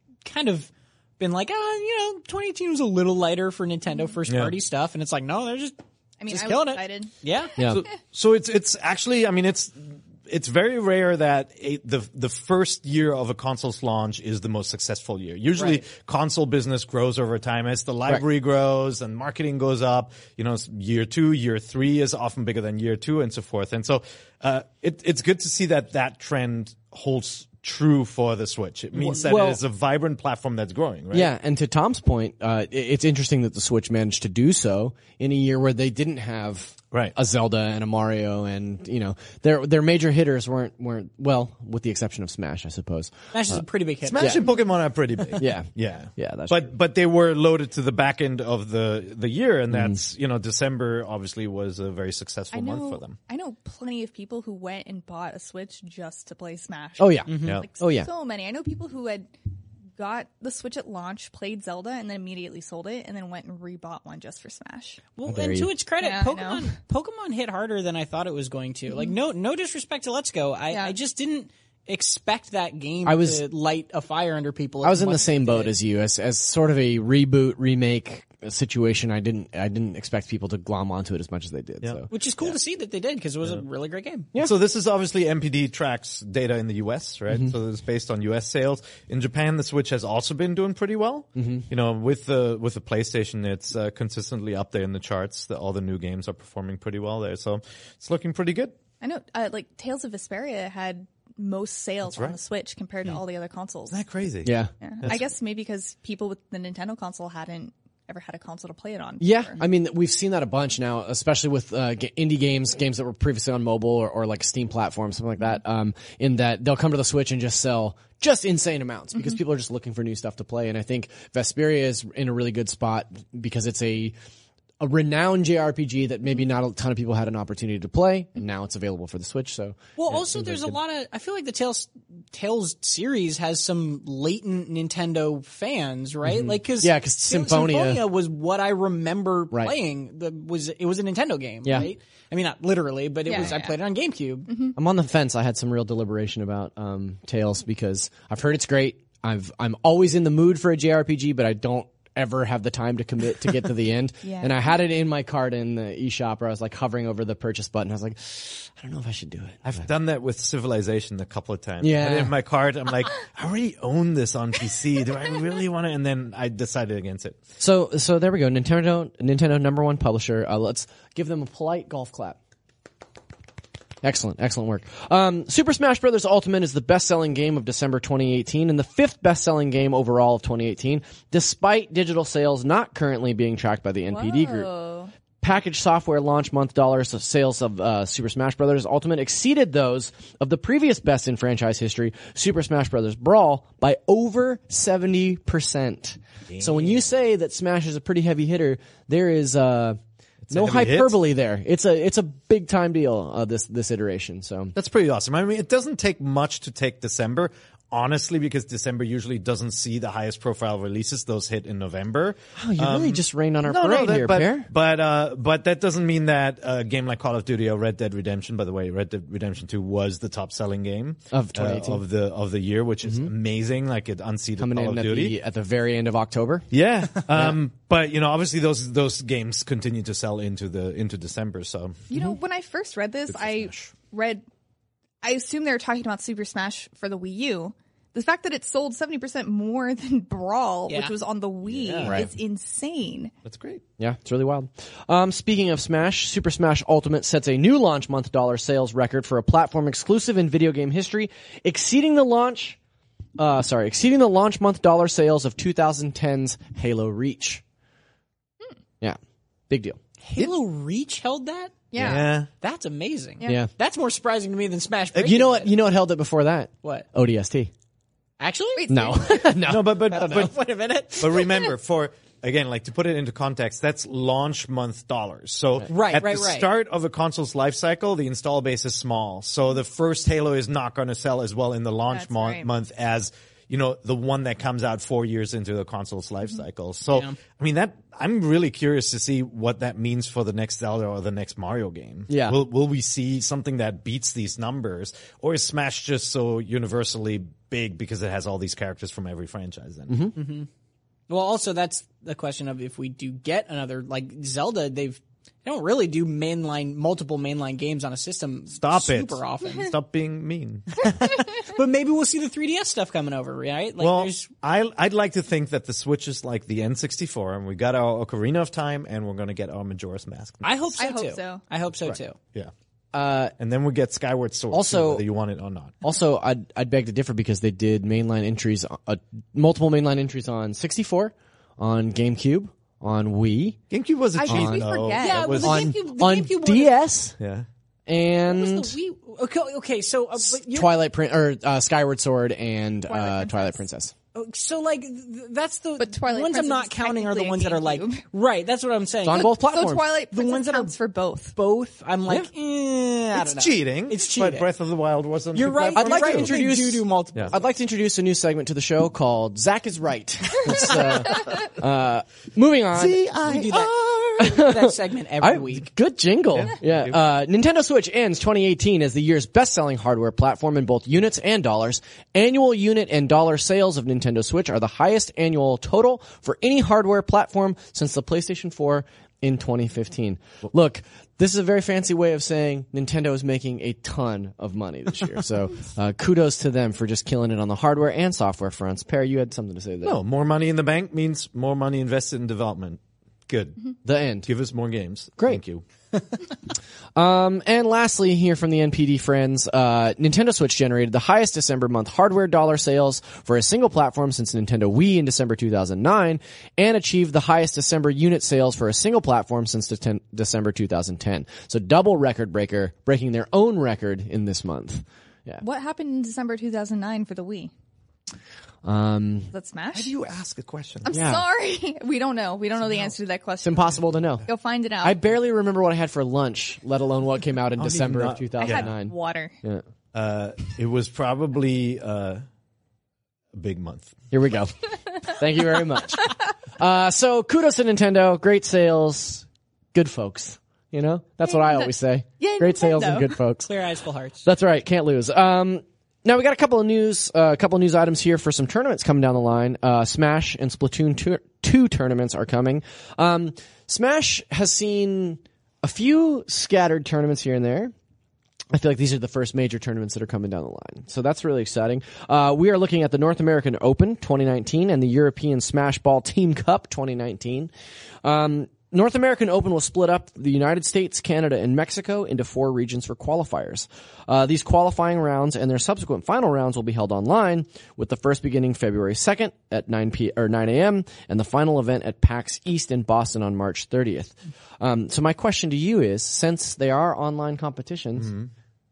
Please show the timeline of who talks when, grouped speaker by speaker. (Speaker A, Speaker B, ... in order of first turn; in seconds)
Speaker A: 0.2-7.5, 15.6-15.8, 43.3-44.4, 57.3-57.6, 65.2-75.7, 82.1-84.3, 130.0-144.5, 240.9-241.2, 260.2-262.0, 262.6-265.7, 268.4-269.4, 270.0-271.5, 275.9-276.7, 287.1-287.4, 300.4-300.7, 301.3-309.9, 311.6-314.5, 320.6-322.4, 335.2-336.9, 338.4-341.0, 344.3-349.6, 350.3-350.9, 351.6-354.7, 355.5-357.6, 363.4-365.9, 443.6-444.4
Speaker B: 4.3-4.5, 7.6-31.3, 44.1-53.1, 84.3-98.7, 102.0-102.4, 103.9-105.2, 159.6-167.4, 196.5-197.0, 200.4-201.2, 204.7-225.3, 226.7-232.1, 233.3-233.9, 241.6-242.3, 243.4-243.8, 262.0-262.5, 269.6-270.5, 271.1-300.3, 308.7-311.2, 314.0-320.7, 323.6-325.9, 333.9-335.9, 337.4-337.6, 353.3-356.5, 362.9-364.4, 366.5-367.2, 390.0-393.9, 394.4-395.8, 419.9-421.1, 427.8-428.9, 430.1-432.4, 433.5-434.2, 488.2-488.5
Speaker C: 6.2-7.1, 52.5-59.3, 60.0-65.0, 66.0-66.7, 68.9-69.2, 99.0-104.0, 104.8-109.6, 119.1-119.4, 143.2-143.8, 144.5-144.7, 154.2-154.6, 184.1-185.1, 232.1-234.4, 235.2-243.3, 261.9-262.3, 268.8-269.4, 282.1-282.7, 320.9-321.6, 334.3-335.7, 343.1-343.8, 346.0-348.2, 349.3-351.5, 415.6-417.7, 419.5-420.1, 421.0-425.2, 428.6-429.5, 441.4-443.4
Speaker D: 7.6-7.8, 29.0-29.6, 31.1-43.6, 45.4-46.7, 49.7-50.0, 57.0-58.1, 65.3-65.7, 73.0-73.4, 74.8-82.5, 91.3-91.7, 104.4-104.7, 109.2-124.1, 124.8-130.8, 136.2-138.0, 141.6-141.9, 144.8-159.8, 161.8-162.3, 167.6-172.4, 174.0-184.7, 185.4-200.0, 200.5-204.7, 212.6-214.7, 221.3-222.0, 223.0-223.3, 224.6-226.7, 244.0-252.8, 253.4-257.6, 259.7-260.0, 263.4-263.7, 265.2-267.7, 268.9-270.4, 292.3-292.6, 300.1-300.3, 323.1-323.5, 324.7-325.2, 326.0-333.8, 334.4-334.8, 335.6-337.3, 338.1-338.9, 340.6-344.1, 349.2-350.0, 355.9-363.2, 364.4-390.2, 394.0-394.5, 397.1-415.6, 418.8-419.5, 421.1-421.4, 423.6-424.4, 425.0-429.8, 434.3-443.7, 444.4-457.9, 458.7-467.7, 468.2-488.3